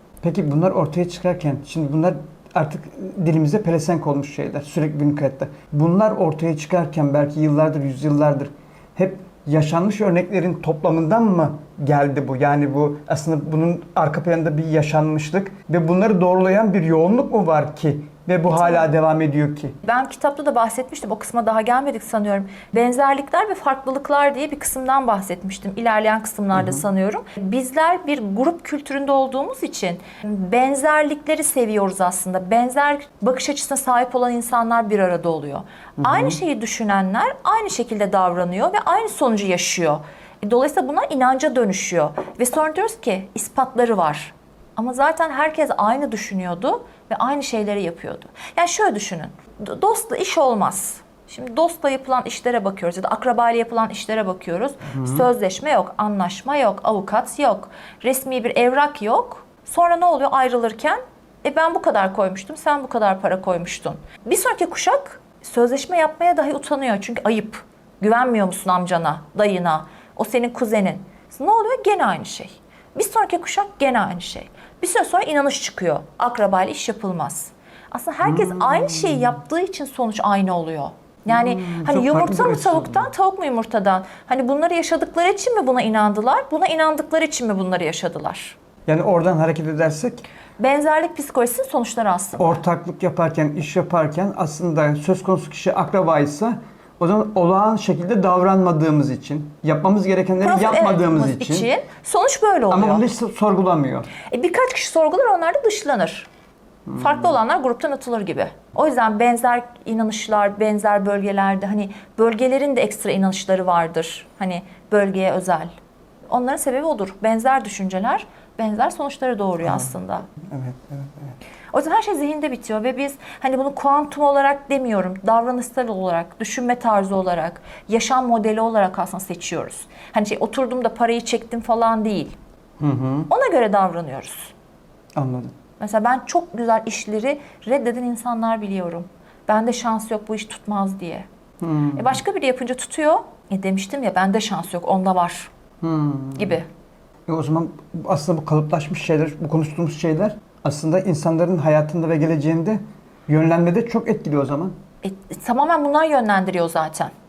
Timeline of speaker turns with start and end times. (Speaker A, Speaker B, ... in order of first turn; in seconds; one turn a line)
Speaker A: 0.2-19.8
Speaker B: 18.5-18.9
Speaker B: 19.8-88.6
Speaker A: 26.5-26.8
Speaker A: 36.0-36.4
Speaker A: 54.9-55.3
Speaker A: 78.2-79.4
Speaker A: 81.3-83.1
Speaker A: 88.9-90.2
Speaker B: 90.6-92.6
Speaker A: 92.4-101.7
Speaker B: 100.4-103.0
Speaker A: 102.7-104.1
Speaker B: 104.2-106.3
Speaker A: 106.9-107.3
Speaker B: 107.0-115.7
Speaker B: 116.3-120.3
Speaker A: 119.6-121.4
Speaker B: 121.7-132.4
Speaker A: 132.8-133.3
Speaker B: 133.3-134.5
Speaker A: 135.1-135.6
Speaker B: 135.8-141.2
Speaker A: 141.6-142.2
Speaker B: 141.9-145.5
Speaker A: 145.8-146.6
Speaker B: 146.4-146.7
Speaker A: 147.3-154.8
Speaker B: 155.0-157.1